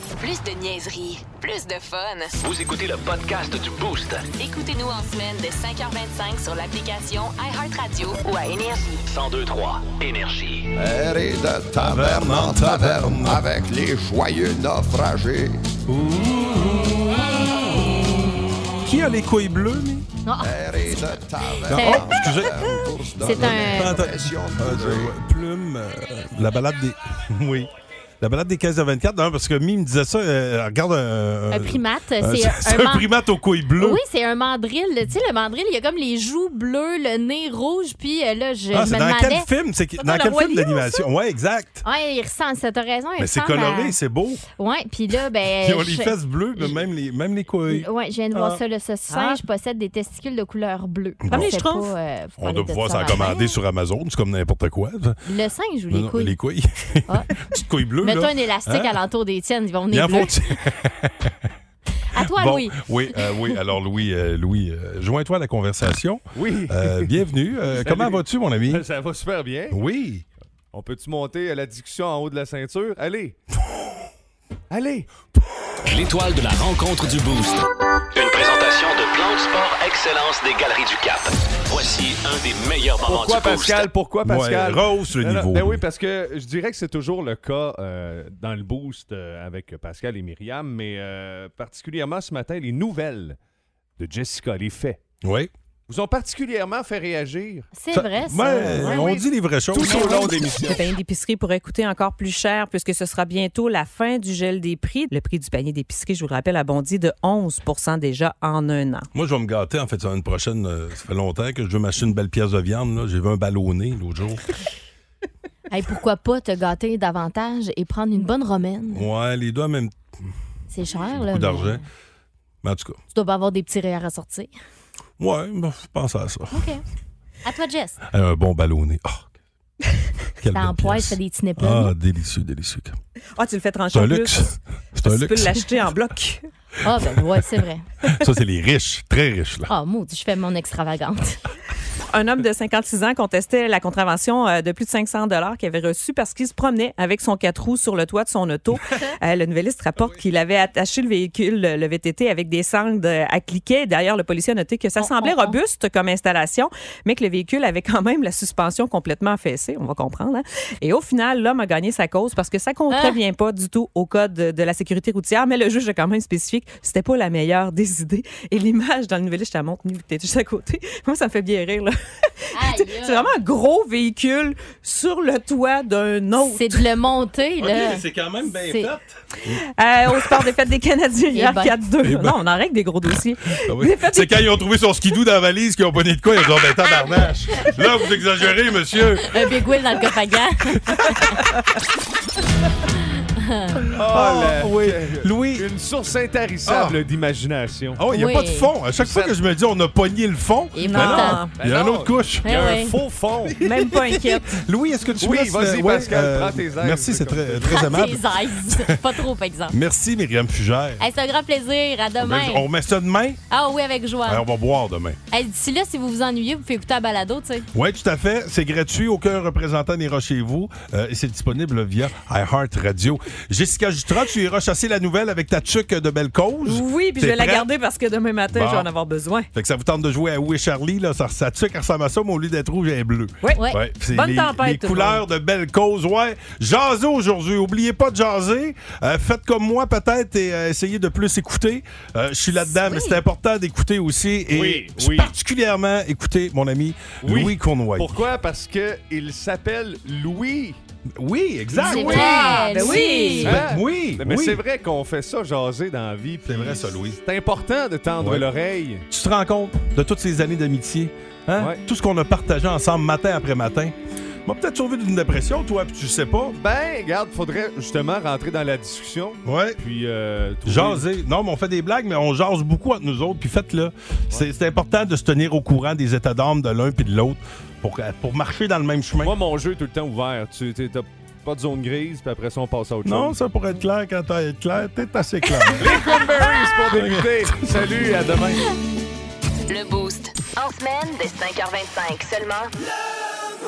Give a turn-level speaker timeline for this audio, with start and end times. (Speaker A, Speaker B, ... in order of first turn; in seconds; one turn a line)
Speaker A: 0.2-2.3
Speaker B: 2.4-4.3
Speaker A: 4.4-9.0
Speaker B: 9.1-10.7
Speaker C: 10.7-15.6
Speaker D: 11.8-13.4
Speaker D: 15.9-18.0
Speaker D: 18.8-20.1
Speaker E: 20.2-21.0
Speaker C: 20.4-25.1
Speaker D: 21.7-27.7
Speaker E: 21.7-22.1
Speaker E: 22.6-23.9
Speaker D: 28.2-34.0
Speaker E: 31.5-33.1
Speaker E: 33.8-39.5
Speaker D: 38.7-41.8
Speaker F: 40.0-40.7
Speaker E: 40.1-41.0
Speaker E: 41.8-44.0
Speaker D: 43.2-44.4
Speaker E: 44.6-46.8
Speaker D: 45.6-47.9
Speaker E: 47.7-53.5
Speaker F: 49.1-49.4
Speaker D: 51.2-51.6
Speaker F: 51.3-51.9
Speaker D: 52.4-55.1
Speaker E: 55.2-56.4
Speaker D: 55.9-58.9
Speaker E: 58.0-60.3
Speaker D: 59.9-61.3
Speaker E: 62.1-62.9
Speaker D: 62.2-68.8
Speaker G: 66.3-67.1
Speaker G: 67.7-69.8
Speaker D: 69.7-70.2
Speaker G: 70.7-73.3
Speaker G: 74.7-75.1
Speaker B: 75.8-77.6
Speaker B: 78.1-83.9
Speaker G: 83.0-93.4
Speaker D: 84.2-85.8
Speaker G: 94.0-95.0
Speaker D: 95.2-95.5
Speaker G: 95.9-97.7
Speaker E: 97.7-99.1
Speaker D: 97.9-100.9
Speaker G: 98.8-100.8
Speaker E: 99.8-100.3
Speaker F: 100.7-109.1
Speaker D: 109.1-114.4
Speaker E: 115.7-119.1
Speaker D: 118.9-120.0
Speaker E: 120.7-121.8
Speaker D: 121.2-121.8
Speaker D: 122.6-123.0
Speaker E: 123.1-124.5
Speaker D: 125.2-126.6
Speaker E: 126.5-126.8
Speaker E: 127.4-128.0
Speaker D: 128.1-129.3
Speaker D: 130.4-132.9
Speaker E: 130.5-131.9
Speaker F: 133.3-136.5
Speaker D: 133.9-135.7
Speaker E: 136.8-137.9
Speaker D: 138.1-139.7
Speaker E: 139.7-141.4
Speaker F: 142.1-171.9
Speaker E: 155.0-155.6
Speaker E: 162.9-163.2
Speaker E: 172.5-173.3
Speaker F: 172.5-176.8
Speaker E: 176.4-178.9
Speaker D: 177.6-180.4
Speaker F: 179.6-184.5
Speaker E: 181.3-181.8
Speaker D: 182.0-182.4
Speaker D: 183.7-189.5
Speaker E: 189.3-191.2
Speaker D: 190.9-191.2
Speaker E: 193.4-193.8
Speaker G: 193.9-198.0
Speaker D: 194.0-195.6
Speaker D: 196.7-197.0
Speaker D: 198.0-202.5
Speaker E: 198.1-198.7
Speaker G: 199.0-199.3
Speaker E: 200.7-201.4
Speaker F: 200.8-201.6
Speaker G: 201.5-203.6
Speaker E: 202.4-202.9
Speaker F: 203.6-204.5
Speaker D: 203.6-208.8
Speaker G: 205.2-208.1
Speaker E: 207.7-209.7
Speaker D: 209.7-211.0
Speaker E: 211.0-212.6
Speaker D: 212.2-213.4
Speaker E: 213.5-214.4
Speaker D: 214.3-215.2
Speaker E: 215.3-217.7
Speaker D: 217.7-227.7
Speaker F: 226.6-229.5
Speaker D: 228.5-228.9
Speaker D: 229.5-248.2
Speaker F: 233.4-235.2
Speaker E: 242.6-243.2
Speaker G: 244.5-245.3
Speaker G: 247.2-250.8
Speaker D: 251.2-252.9
Speaker F: 251.8-253.6
Speaker E: 251.8-253.6
Speaker G: 253.4-259.0
Speaker D: 253.4-254.6
Speaker D: 256.5-257.2
Speaker D: 258.2-258.4
Speaker D: 259.1-263.9
Speaker D: 264.4-266.6
Speaker G: 266.6-271.0
Speaker D: 269.4-269.8
Speaker D: 270.6-279.3
Speaker G: 279.2-283.4
Speaker D: 283.0-286.1
Speaker G: 285.8-288.6
Speaker D: 286.9-287.3
Speaker A: 289.7-292.7